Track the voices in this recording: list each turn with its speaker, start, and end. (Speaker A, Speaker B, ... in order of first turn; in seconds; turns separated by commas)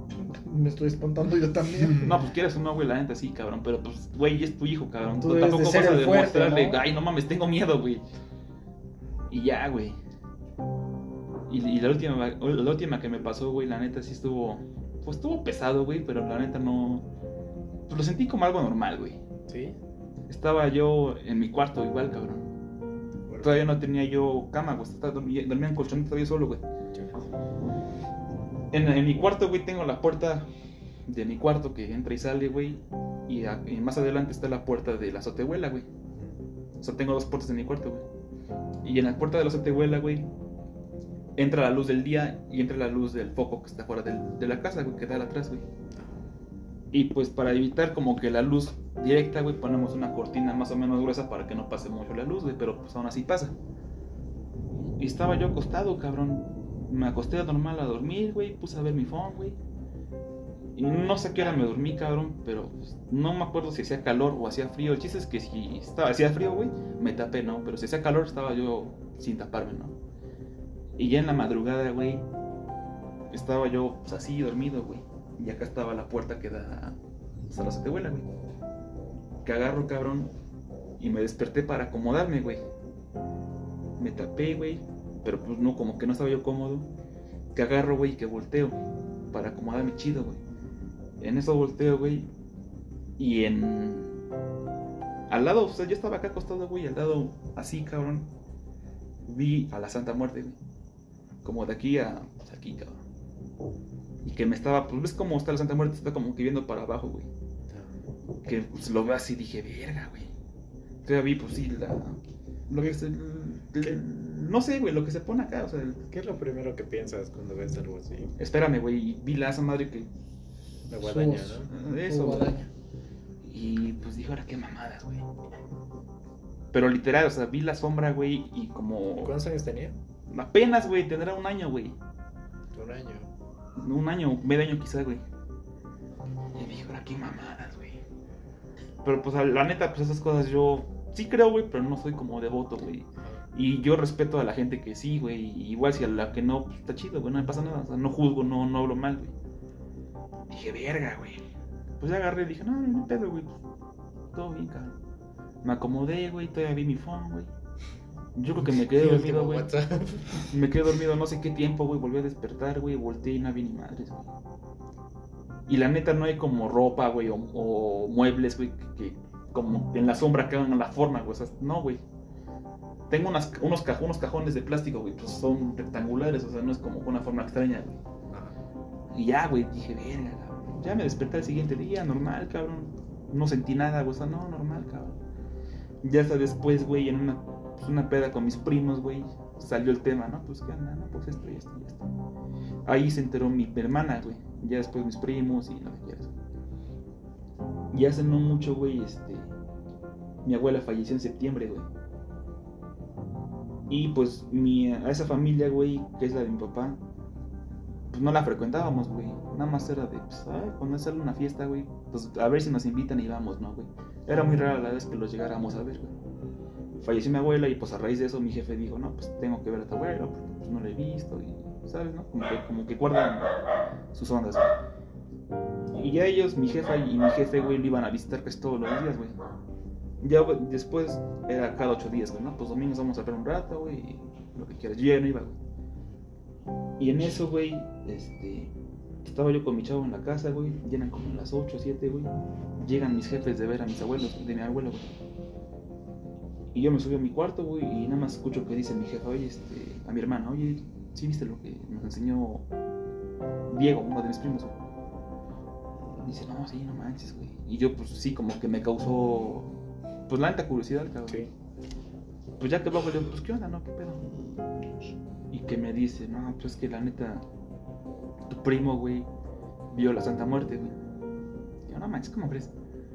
Speaker A: 0.2-2.1, Speaker B: 2.0-8.0, Speaker A: 5.2-6.8, Speaker B: 9.3-10.0, Speaker B: 11.5-17.1, Speaker B: 17.9-19.2, Speaker C: 19.5-19.8, Speaker B: 20.3-22.5, Speaker C: 23.3-23.7, Speaker B: 23.4-26.6, Speaker C: 26.9-27.2, Speaker B: 28.7-30.5, Speaker B: 31.1-35.9, Speaker C: 36.1-36.4, Speaker B: 36.8-38.0, Speaker B: 38.8-40.3, Speaker B: 41.4-45.6, Speaker C: 45.9-46.2, Speaker B: 46.9-53.5, Speaker B: 55.0-59.6, Speaker B: 60.8-70.0, Speaker B: 71.0-72.2, Speaker B: 73.3-77.0, Speaker B: 77.5-78.2, Speaker B: 79.4-80.3, Speaker B: 81.0-82.6, Speaker B: 84.0-86.9, Speaker B: 87.5-88.8, Speaker B: 89.3-90.4, Speaker B: 91.2-92.3, Speaker B: 93.2-94.2, Speaker B: 95.3-98.3, Speaker B: 99.2-100.5, Speaker B: 101.4-103.0, Speaker B: 104.2-107.3, Speaker C: 107.7-108.1, Speaker B: 108.4-110.3, Speaker B: 111.0-116.0, Speaker C: 116.1-118.3, Speaker B: 118.4-120.1, Speaker C: 120.9-121.7, Speaker A: 121.0-122.7, Speaker B: 121.7-122.5, Speaker B: 123.4-125.2, Speaker B: 126.7-129.4, Speaker C: 129.2-129.9, Speaker B: 130.3-131.9, Speaker C: 132.7-133.3, Speaker B: 133.8-135.2, Speaker B: 136.6-138.0, Speaker B: 139.0-149.3, Speaker C: 143.2-143.5, Speaker B: 150.5-151.4, Speaker B: 152.0-153.6, Speaker B: 154.3-154.9, Speaker B: 155.6-157.5, Speaker B: 158.4-159.7, Speaker C: 158.6-160.4, Speaker B: 160.5-164.3, Speaker B: 165.7-172.0, Speaker B: 173.1-178.0, Speaker C: 178.3-178.6, Speaker B: 179.1-185.2, Speaker B: 186.0-192.1, Speaker B: 192.9-196.3, Speaker B: 197.9-199.5, Speaker B: 200.4-201.9, Speaker B: 203.9-207.0, Speaker B: 208.1-216.1, Speaker B: 217.0-223.5, Speaker B: 224.1-224.8, Speaker B: 225.9-229.3, Speaker B: 230.2-235.6, Speaker B: 237.0-238.7, Speaker B: 239.2-245.1, Speaker B: 246.7-252.6, Speaker B: 253.7-254.7, Speaker B: 256.2-259.7, Speaker B: 260.3-261.4, Speaker B: 262.6-264.4, Speaker B: 265.5-267.4, Speaker B: 268.5-269.3, Speaker B: 269.9-270.9, Speaker B: 271.9-272.7